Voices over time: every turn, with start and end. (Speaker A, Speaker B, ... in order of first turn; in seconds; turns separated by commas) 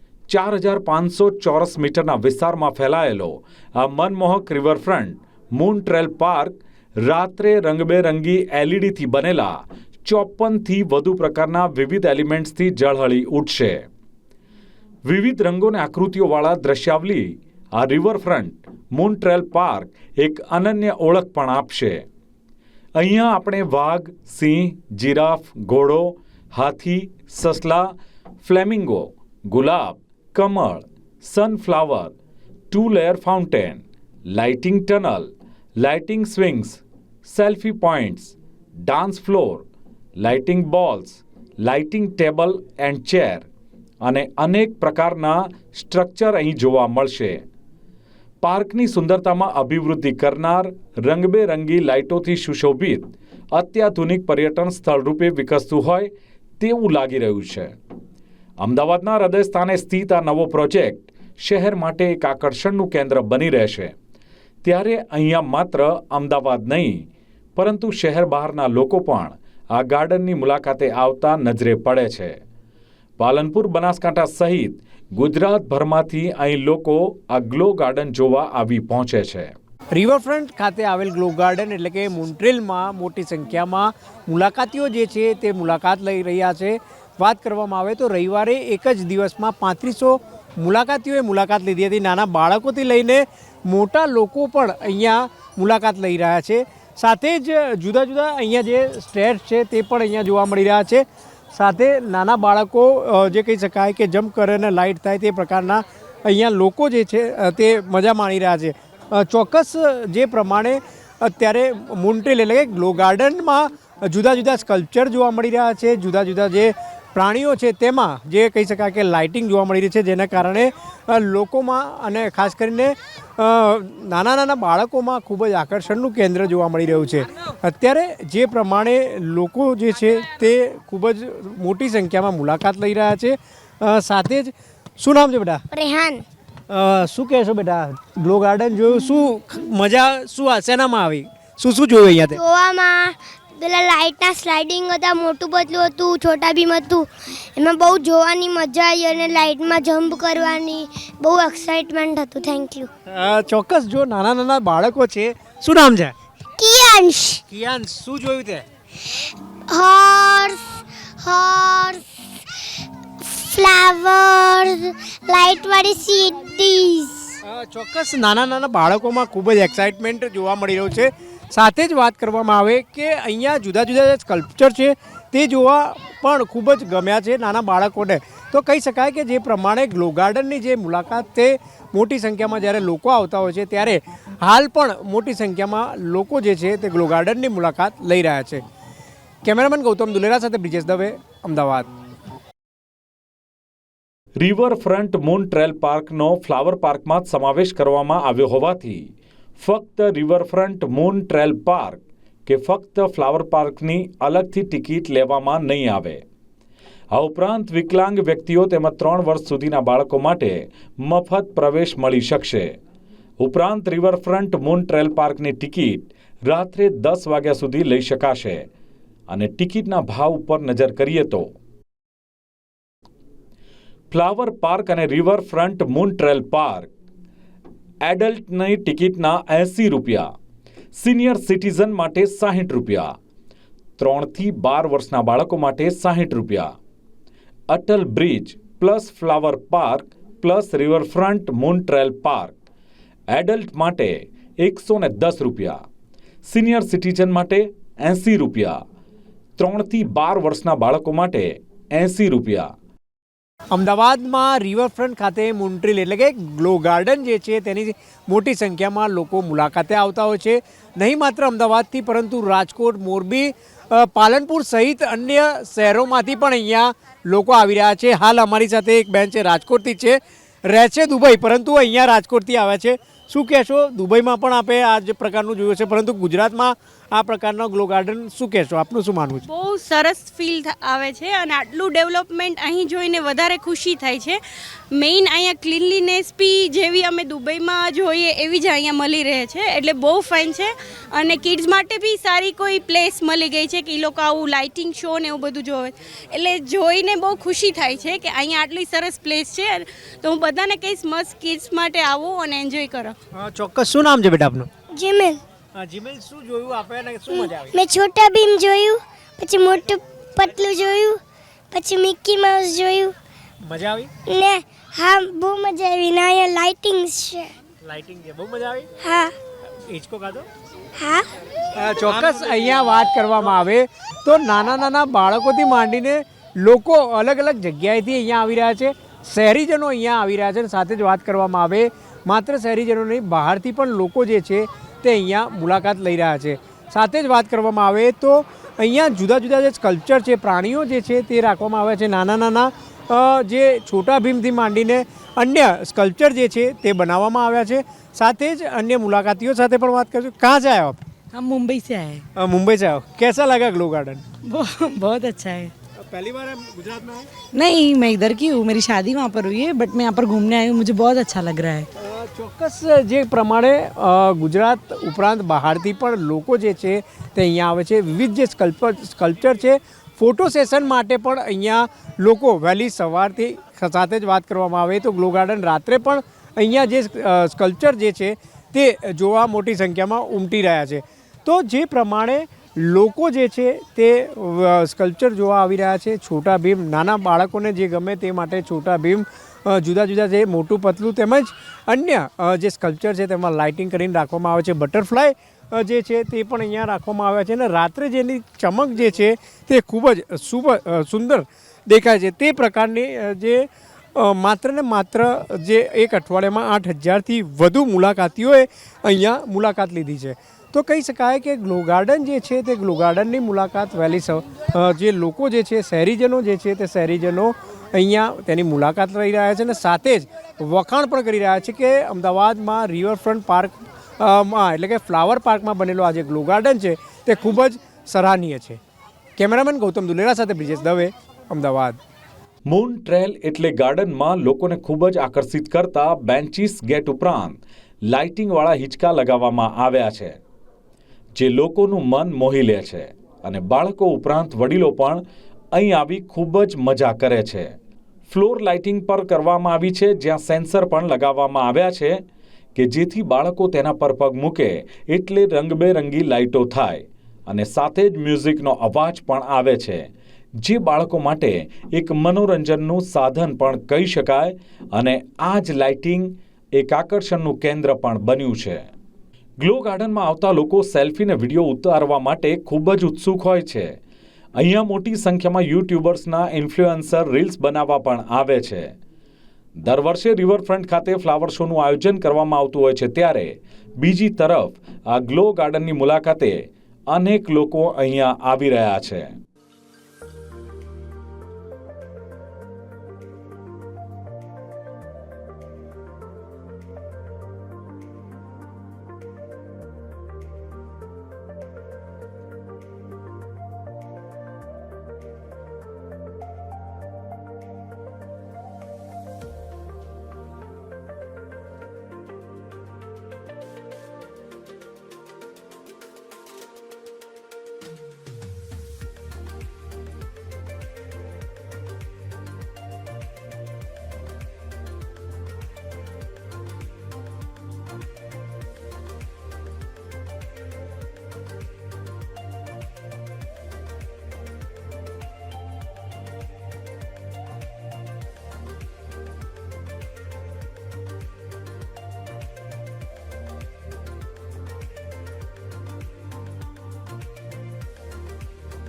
Speaker A: 0.3-13.9, Speaker A: 15.1-22.1, Speaker A: 23.0-32.1, Speaker A: 32.7-39.6, Speaker A: 40.2-43.5, Speaker A: 44.0-47.4, Speaker A: 48.4-57.7, Speaker A: 58.6-63.9, Speaker A: 64.6-72.4, Speaker A: 73.2-79.5, Speaker B: 79.9-135.6, Speaker C: 135.7-136.2, Speaker B: 136.7-142.4, Speaker C: 142.3-152.9, Speaker B: 153.1-156.2, Speaker C: 156.6-157.4, Speaker B: 157.5-158.7, Speaker C: 159.7-160.7, Speaker C: 161.2-162.1, Speaker C: 163.2-167.3, Speaker B: 167.4-188.6, Speaker B: 189.4-191.9, Speaker A: 194.4-206.2, Speaker A: 207.1-212.7, Speaker A: 213.4-218.7, Speaker A: 219.3-221.5, Speaker A: 224.1-226.9, Speaker A: 228.1-230.3, Speaker A: 230.9-233.1, Speaker A: 234.0-236.7, Speaker A: 237.7-242.6, Speaker A: 243.3-245.8, Speaker A: 246.5-248.8, Speaker A: 249.6-252.7, Speaker B: 253.7-279.4, Speaker D: 279.4-284.4, Speaker D: 284.9-303.2, Speaker B: 303.3-304.7, Speaker C: 304.9-305.4, Speaker B: 305.8-307.7, Speaker C: 307.3-311.2, Speaker C: 311.7-313.1, Speaker B: 313.6-314.1, Speaker C: 314.3-317.5, Speaker B: 317.8-318.9, Speaker C: 319.0-319.4, Speaker B: 319.8-320.5, Speaker C: 321.0-321.3, Speaker B: 321.7-351.0, Speaker E: 351.3-352.2, Speaker B: 352.4-354.2, Speaker E: 354.4-355.7, Speaker B: 356.0-357.3, Speaker E: 357.5-361.9, Speaker B: 362.0-428.8, Speaker B: 429.4-432.0, Speaker A: 432.7-440.4, Speaker A: 441.4-445.2, Speaker A: 445.7-447.7, Speaker A: 448.3-452.2, Speaker A: 452.8-460.1, Speaker A: 460.6-468.9, Speaker A: 469.6-473.9, Speaker A: 474.6-478.9, Speaker A: 479.8-489.3